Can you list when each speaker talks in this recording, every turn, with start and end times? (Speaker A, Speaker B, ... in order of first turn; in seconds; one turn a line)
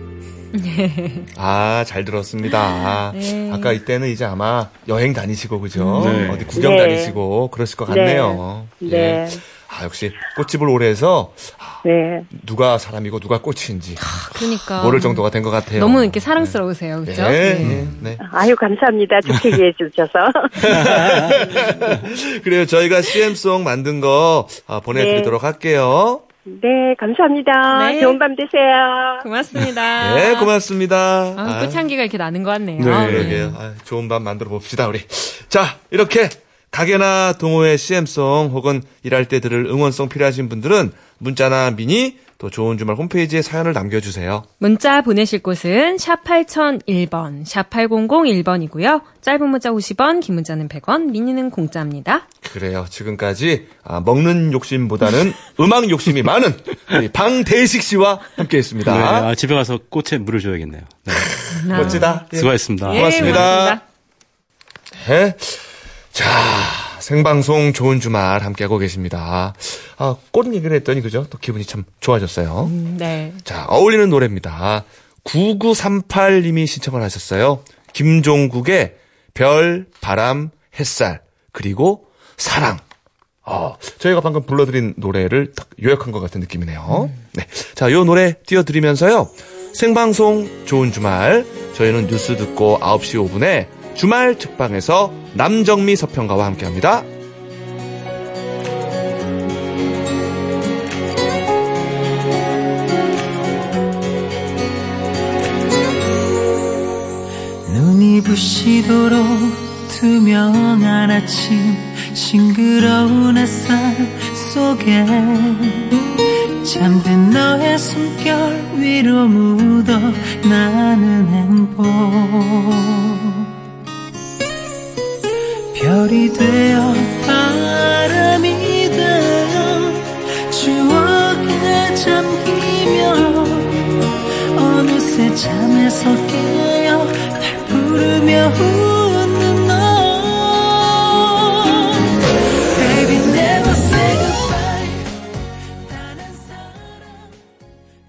Speaker A: 0.5-1.3
Speaker B: 1.3-18.2
Speaker A: 2.5-3.8
Speaker A: 5.7-6.4
Speaker C: 6.0-6.5
Speaker D: 6.5-7.2
Speaker D: 7.9-9.4
Speaker D: 11.8-12.3
Speaker A: 14.0-17.7
Speaker C: 17.6-18.0
Speaker D: 18.2-20.8
Speaker B: 20.6-26.2
Speaker C: 20.7-21.3
Speaker D: 24.9-25.3
Speaker D: 26.5-29.2
Speaker A: 27.7-28.2
Speaker A: 29.2-30.5
Speaker B: 30.0-31.9
Speaker A: 31.4-33.6
Speaker C: 32.8-33.4
Speaker B: 32.9-44.5
Speaker A: 44.6-52.2
Speaker B: 52.4-59.3
Speaker C: 58.8-63.5
Speaker B: 61.1-63.8
Speaker A: 61.5-62.2
Speaker A: 62.8-63.8
Speaker B: 65.0-72.7
Speaker A: 72.6-73.4
Speaker B: 73.4-82.8
Speaker B: 83.4-97.1
Speaker E: 107.7-116.0
Speaker E: 116.6-123.5
Speaker E: 125.7-133.8
Speaker E: 134.5-142.1
Speaker E: 142.7-145.1
Speaker E: 145.8-147.4